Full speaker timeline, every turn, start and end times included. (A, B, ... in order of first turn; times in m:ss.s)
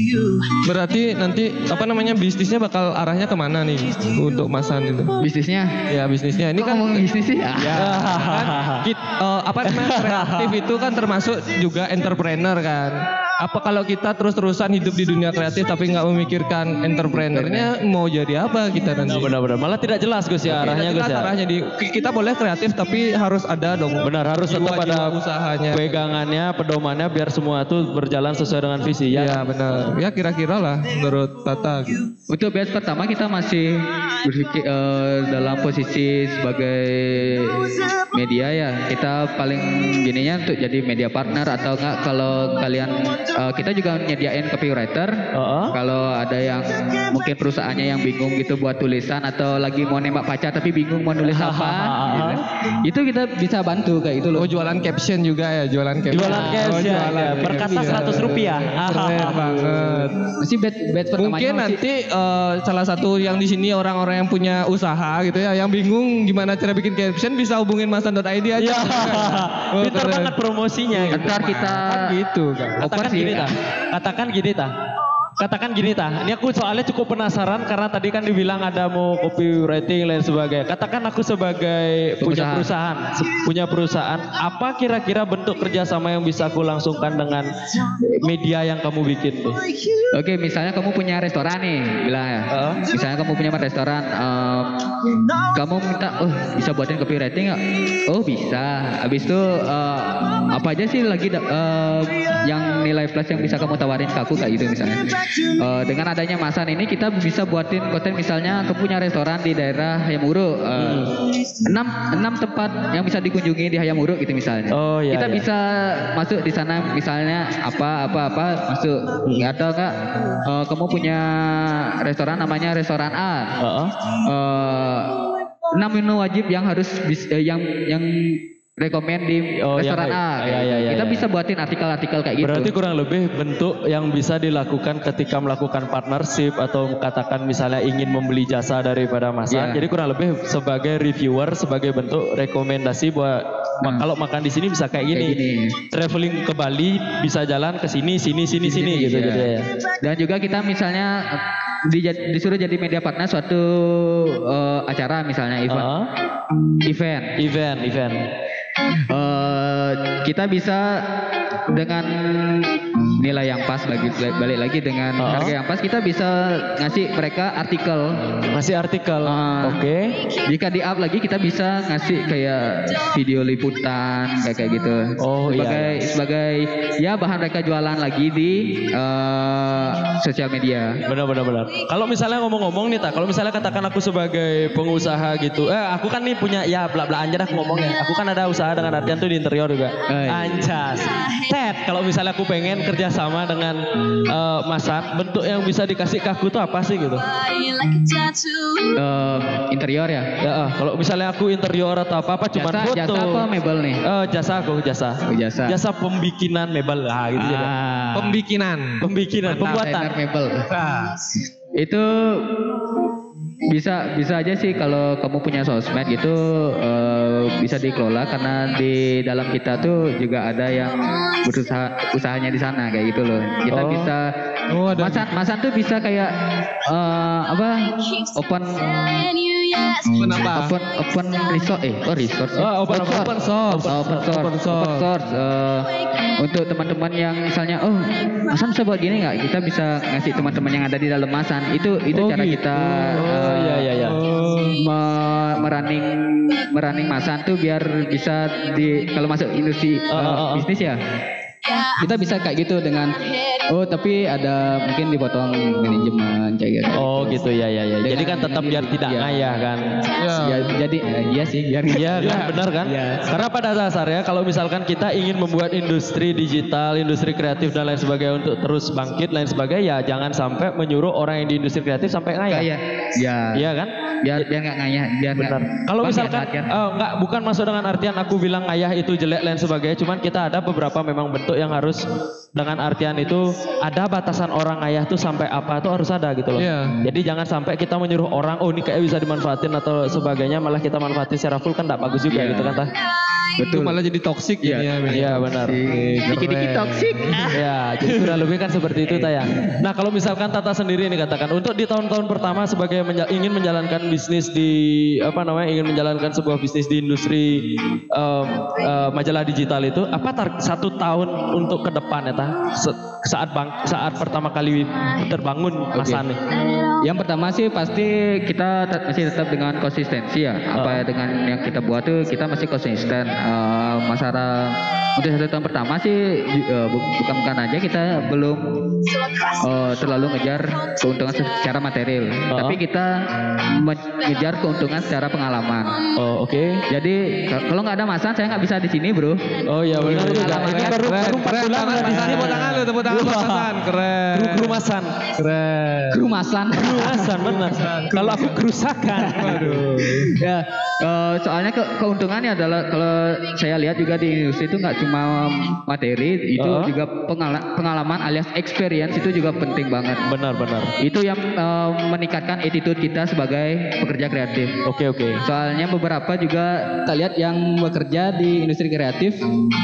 0:00.6-0:05.2 A
0:05.2-0:05.8 B
0:05.9-0:19.3 A
0:06.6-0:08.0 B
0:07.8-0:08.9 C
0:09.6-0:10.6 C
0:17.1-0:17.7 B
0:19.0-0:21.3 C
0:20.4-0:26.0 A
0:24.0-0:25.2 C
0:25.7-0:29.9 C
0:29.1-0:32.0 A
0:32.3-0:54.5 B
0:45.3-0:45.7 C
0:51.2-0:52.4 C
0:54.4-1:00.2 A
0:56.1-0:59.8 C
0:56.3-0:56.6 B
0:57.9-0:58.2 B
1:00.3-1:01.8 B
1:01.2-1:10.3 A
1:08.6-1:11.4 C
1:10.9-1:12.8 A
1:11.1-1:12.1 B
1:12.8-1:13.5 B
1:12.8-1:14.7 C
1:15.4-1:29.6 C
1:22.2-1:22.7 B
1:30.1-1:34.7 B
1:32.5-1:32.8 C
1:35.3-2:03.6 B
1:50.8-1:51.1 C
1:54.7-1:55.5 C
2:03.6-2:04.0 C
2:04.2-2:05.2 B
2:05.7-2:12.8 B
2:09.6-2:11.3 C
2:12.4-2:29.7 C
2:19.5-2:19.8 B
2:25.1-2:25.8 B
2:28.6-2:29.5 B
2:30.0-2:35.9 B
2:35.7-2:36.1 C
2:36.8-2:37.4 B
2:37.4-2:38.2 C
2:39.1-2:41.1 B
2:41.7-2:48.4 B
2:45.2-2:45.6 C
2:48.5-2:50.2 C
2:49.2-2:49.8 B
2:50.4-3:01.0 B
2:55.2-2:56.1 C
3:01.0-3:17.4 C
3:10.1-3:10.6 B
3:18.9-3:20.3 B
3:20.4-3:23.5 C
3:22.6-3:24.0 B
3:24.0-3:27.7 C
3:25.3-3:25.8 B
3:27.4-3:28.4 B
3:28.2-3:29.1 A
3:29.0-3:30.2 C
3:29.5-3:30.7 B
3:30.7-3:31.1 A
3:31.8-3:32.6 B
3:33.6-3:44.3 B
3:43.7-3:44.1 C
3:44.7-3:45.3 A
3:45.0-3:49.4 B
3:50.0-3:53.3 B
3:50.1-3:50.7 A
3:52.5-3:54.4 C
3:53.0-3:55.1 A
3:53.9-4:03.9 B
4:02.1-4:04.2 C
4:03.9-4:04.7 A
4:04.7-4:11.0 B
4:10.1-4:10.7 C
4:11.8-4:17.4 B
4:16.9-4:20.1 C
4:18.0-4:19.5 B
4:20.2-4:20.7 A
4:20.4-4:23.3 B
4:21.9-4:32.7 C
4:32.5-4:33.7 B
4:33.5-4:34.5 C
4:34.2-4:36.7 B
4:35.3-4:42.0 C
4:42.6-4:52.9 C
4:46.6-4:47.0 A
4:52.3-4:52.7 B
4:53.6-4:54.0 B
4:53.7-4:57.4 A
4:54.6-4:54.9 B
4:55.1-4:55.8 C
4:55.6-4:58.4 B
4:57.5-5:16.5 C
4:59.1-4:59.8 B
5:15.9-5:16.2 B
5:17.0-5:28.6 B
5:20.8-5:21.0 C
5:29.4-5:36.1 B
5:32.5-5:32.8 C
5:36.1-5:36.8 C
5:36.9-5:41.1 B
5:39.6-5:43.7 C
5:40.0-5:46.2 A
5:41.9-5:42.7 B
5:44.3-5:45.3 C
5:46.1-5:47.4 B
5:46.8-5:49.8 C
5:47.4-5:48.6 A
5:49.1-6:00.3 B
5:49.4-5:50.3 A
5:56.6-5:56.9 C
6:00.2-6:01.0 C
6:01.0-6:04.8 B
6:04.8-6:05.5 C
6:05.4-6:09.4 B